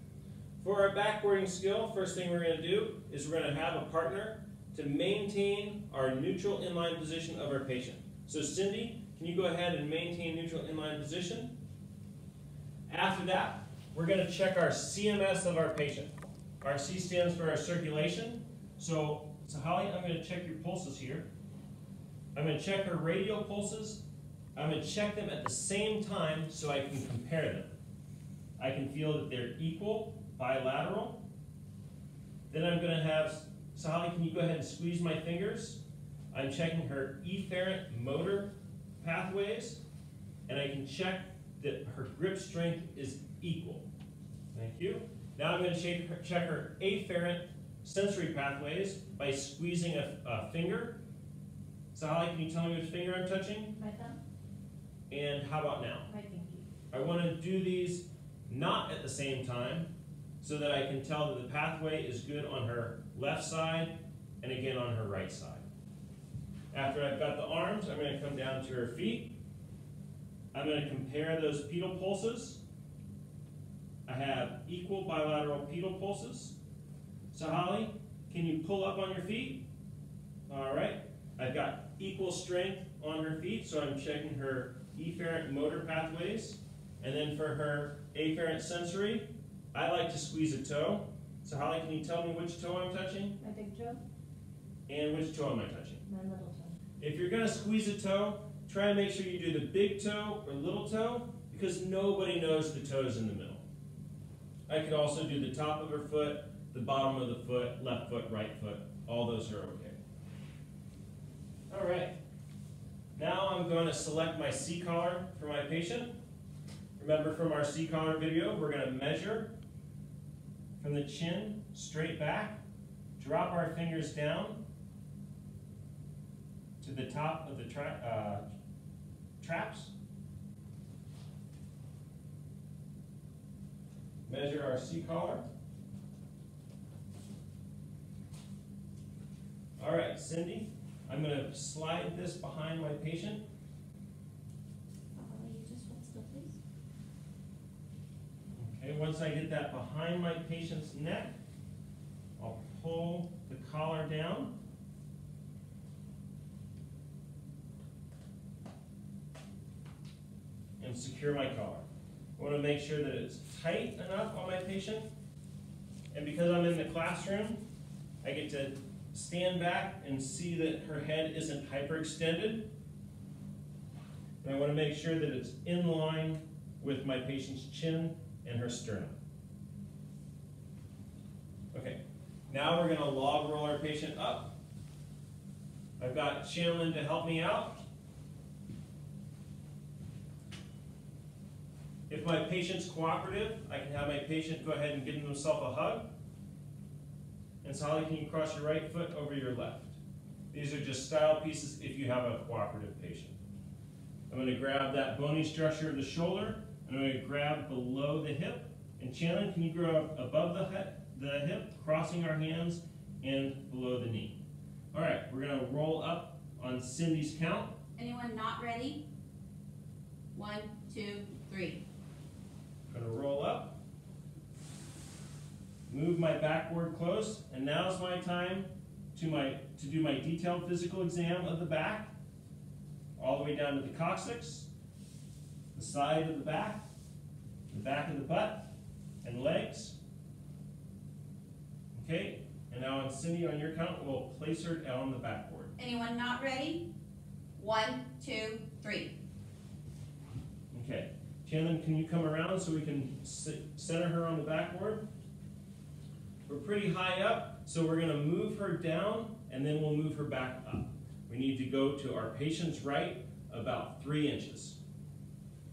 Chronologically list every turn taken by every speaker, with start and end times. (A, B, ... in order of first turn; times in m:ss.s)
0:00.6-0:11.5 A
0:12.9-0:16.1 A
0:16.6-0:21.3 A
0:22.4-0:24.0 A
0:24.6-0:27.7 A
0:28.6-0:31.2 A
0:32.5-0:35.8 A
0:36.3-0:39.8 A
0:40.5-0:43.8 A
0:44.5-0:51.0 A
0:51.9-0:53.7 A
0:53.8-0:54.2 B
0:55.1-0:56.1 A
0:56.1-0:56.6 B
0:56.9-0:59.9 A
1:00.4-1:05.6 A
1:06.7-1:09.3 A
1:10.5-1:12.6 A
1:14.1-1:16.6 A
1:17.3-1:19.6 A
1:20.5-1:33.4 A
1:33.4-1:34.0 B
1:34.9-1:36.0 A
1:36.1-1:36.8 B
1:37.0-1:43.6 A
1:44.7-1:50.0 A
1:51.7-1:52.1 A
1:53.2-1:56.1 A
1:57.0-1:59.5 A
2:00.8-2:02.6 A
2:03.2-2:04.6 A
2:06.8-2:08.4 A
2:09.4-2:09.9 A
2:14.3-2:15.4 A
2:19.8-2:23.4 A
2:25.2-2:26.6 B
2:28.6-2:31.3 A
2:32.4-2:34.5 A
2:40.8-2:41.8 A
2:42.4-2:45.1 A
2:46.1-2:47.6 A
2:48.2-2:52.7 A
2:54.4-2:59.2 A
3:01.7-3:02.0 A
3:02.5-3:04.5 A
3:06.0-3:07.8 A
3:12.1-3:16.0 A
3:17.6-3:20.0 A
3:20.5-3:23.4 A
3:24.3-3:34.4 A
3:34.9-3:37.7 A
3:38.0-3:39.0 C
3:40.4-3:41.8 C
3:42.9-3:43.7 A
3:45.9-3:52.1 A
3:53.2-3:54.7 A
3:55.7-3:56.8 A
3:57.7-3:58.6 A
3:59.2-4:00.0 A
4:01.9-4:05.7 A
4:05.8-4:06.8 C
4:07.6-4:09.1 C
4:10.7-4:15.0 A
4:16.5-4:24.8 A